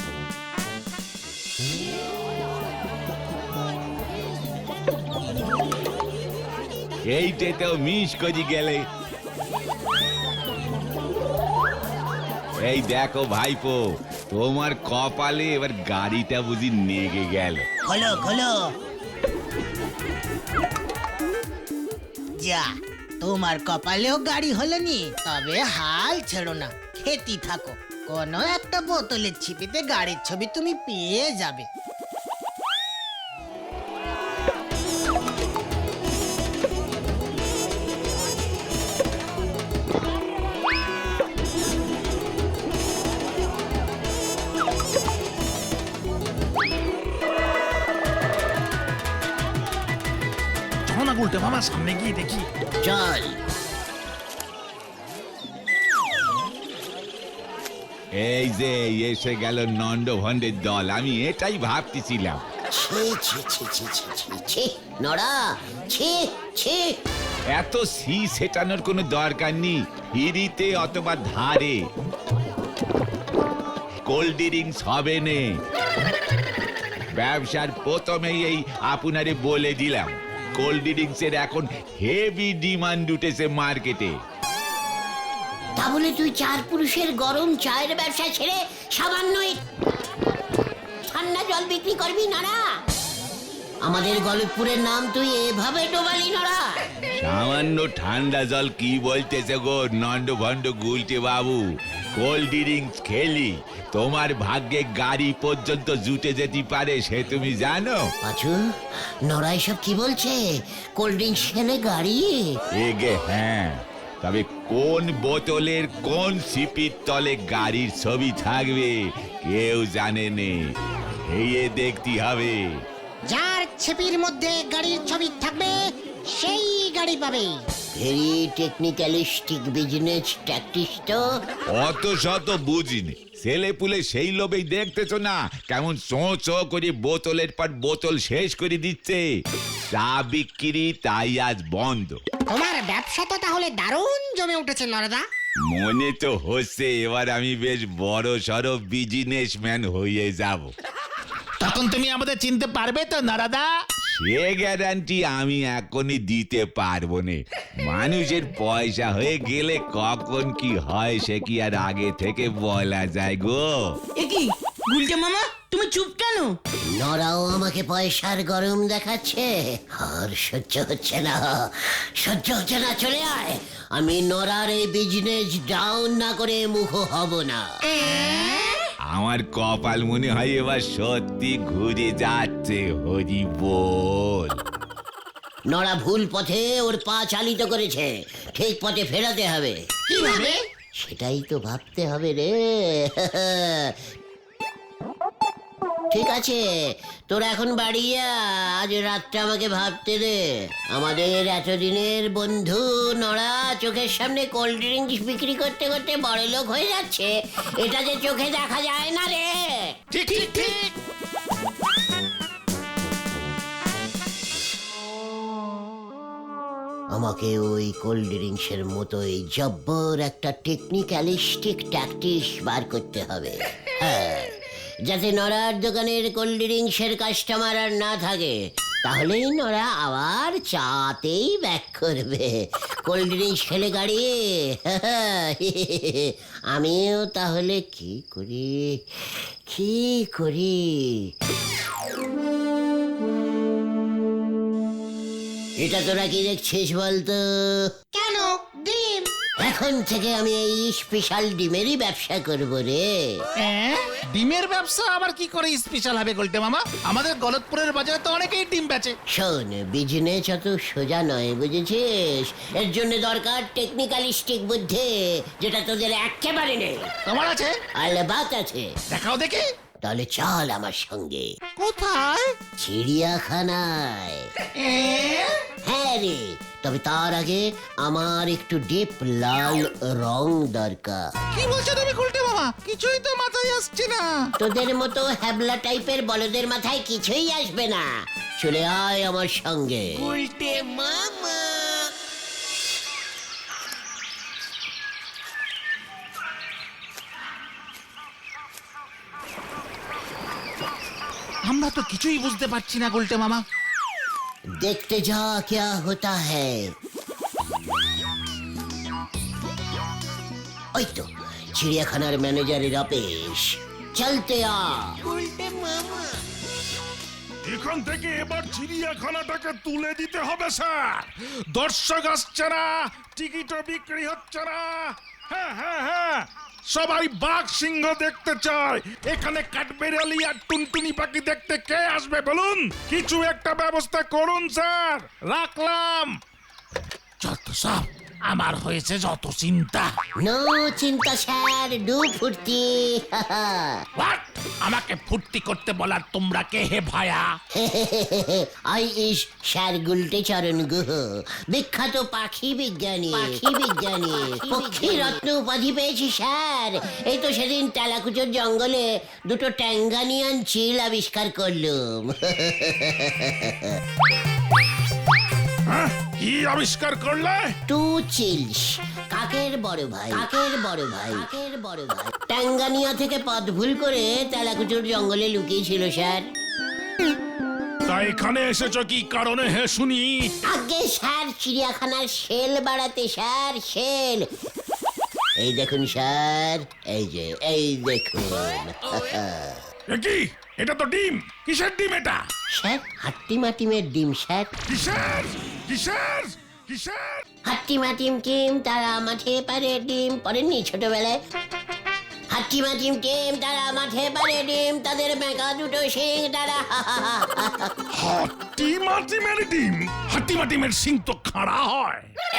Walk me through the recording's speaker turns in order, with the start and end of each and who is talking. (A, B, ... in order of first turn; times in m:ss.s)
0:07.1-0:08.9 A
0:12.6-0:17.7 A
0:17.8-0:18.6 B
0:22.4-0:31.7 B
0:50.9-0:52.5 C
0:52.8-0:53.4 D
0:58.2-1:02.5 A
1:02.7-1:07.0 D
1:07.5-1:11.9 A
1:14.0-1:15.6 A
1:17.1-1:24.2 A
1:25.8-1:29.6 D
1:31.1-1:32.6 D
1:33.8-1:36.6 D
1:37.2-1:41.6 A
1:42.2-1:48.1 A
1:48.2-1:48.7 D
1:49.3-1:50.4 D
1:51.0-1:52.6 D
1:52.7-2:00.8 A
2:01.3-2:02.8 A
2:03.3-2:07.6 B
2:08.0-2:11.2 D
2:11.7-2:19.3 A
2:19.9-2:22.2 A
2:22.5-2:25.2 B
2:25.6-2:30.7 A
2:31.6-2:33.7 C
2:34.1-2:44.0 A
2:44.2-2:46.6 E
2:47.0-2:57.6 D
2:59.1-3:04.6 A
3:05.7-3:09.8 D
3:10.1-3:10.6 B
3:10.2-3:10.5 E
3:11.0-3:14.0 D
3:16.1-3:16.6 D
3:17.3-3:20.4 D
3:20.9-3:29.6 D
3:30.1-3:30.9 C
3:30.2-3:30.8 E
3:37.1-3:59.0 D
3:59.7-4:01.3 D
4:05.8-4:07.8 D
4:08.1-4:09.3 B
4:09.6-4:13.1 D
4:13.6-4:19.2 C
4:19.3-4:27.1 D
4:27.3-4:27.7 C
4:28.0-4:28.9 D
4:29.1-4:29.6 C
4:30.0-4:31.5 D
4:31.8-4:32.5 C
4:32.8-4:34.5 D
4:34.8-4:35.5 E
4:35.8-4:41.3 D
4:41.5-4:44.5 C
4:44.6-4:48.1 D
4:48.6-4:50.3 D
4:50.2-4:52.1 E
5:01.7-5:03.6 C
5:04.8-5:06.9 D
5:11.0-5:15.2 D
5:15.2-5:16.4 E
5:17.6-5:35.4 F
5:35.5-5:36.3 C
5:37.4-5:40.1 C
5:40.4-5:44.0 D
5:44.2-5:47.5 C
5:47.8-6:03.9 D
6:05.9-6:07.7 F
6:07.9-6:16.5 D
6:18.1-6:20.5 F
6:20.7-6:24.5 D
6:25.6-6:29.8 D
6:30.1-6:32.4 F
6:32.8-6:34.7 D
6:34.9-6:37.4 F
6:37.7-6:41.4 D
6:42.5-6:47.9 D
6:48.2-6:52.3 F